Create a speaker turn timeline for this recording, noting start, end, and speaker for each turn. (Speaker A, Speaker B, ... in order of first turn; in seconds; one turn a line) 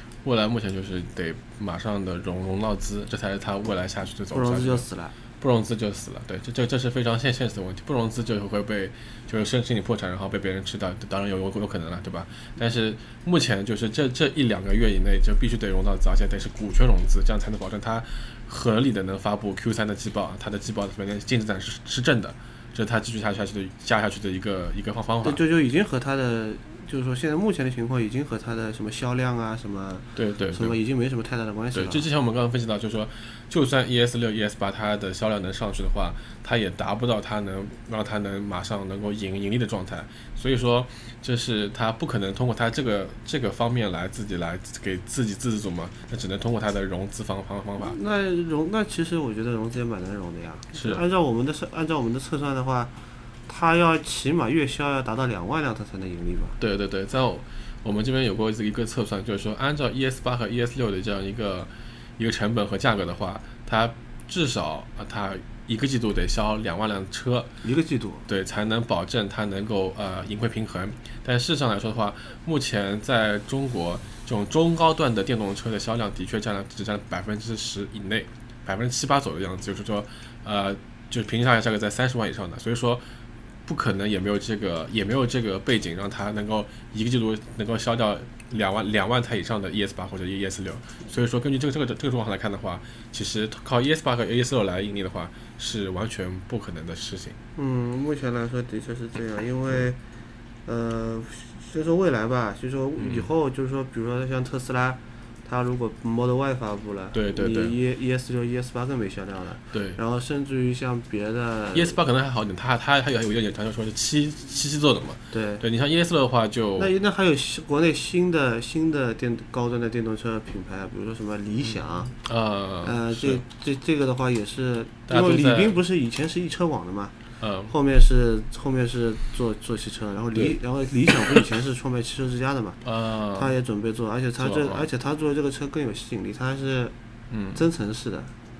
Speaker A: 0.2-4.8
Speaker B: 4.3-5.2
Speaker A: 5.4-25.4
Speaker B: 25.2-32.1
Speaker A: 30.1-30.8
Speaker A: 31.7-48.0
Speaker B: 47.8-52.9
Speaker A: 50.7-51.0
Speaker B: 53.5-56.6
Speaker A: 56.6-67.5
Speaker B: 67.6-68.3
Speaker A: 68.3-83.0
Speaker A: 83.7-97.4
Speaker B: 97.5-100.0
Speaker B: 100.6-112.0
Speaker A: 103.0-103.3
Speaker A: 107.1-107.8
Speaker A: 109.7-110.0
Speaker A: 111.7-116.9
Speaker B: 115.3-115.7
Speaker B: 116.8-122.1
Speaker A: 122.0-123.4
Speaker B: 122.8-127.2
Speaker A: 125.1-125.8
Speaker A: 127.4-127.7
Speaker B: 127.7-132.8
Speaker A: 132.8-133.5
Speaker B: 133.3-136.9
Speaker A: 134.4-134.9
Speaker A: 137.3-137.7
Speaker B: 137.5-138.3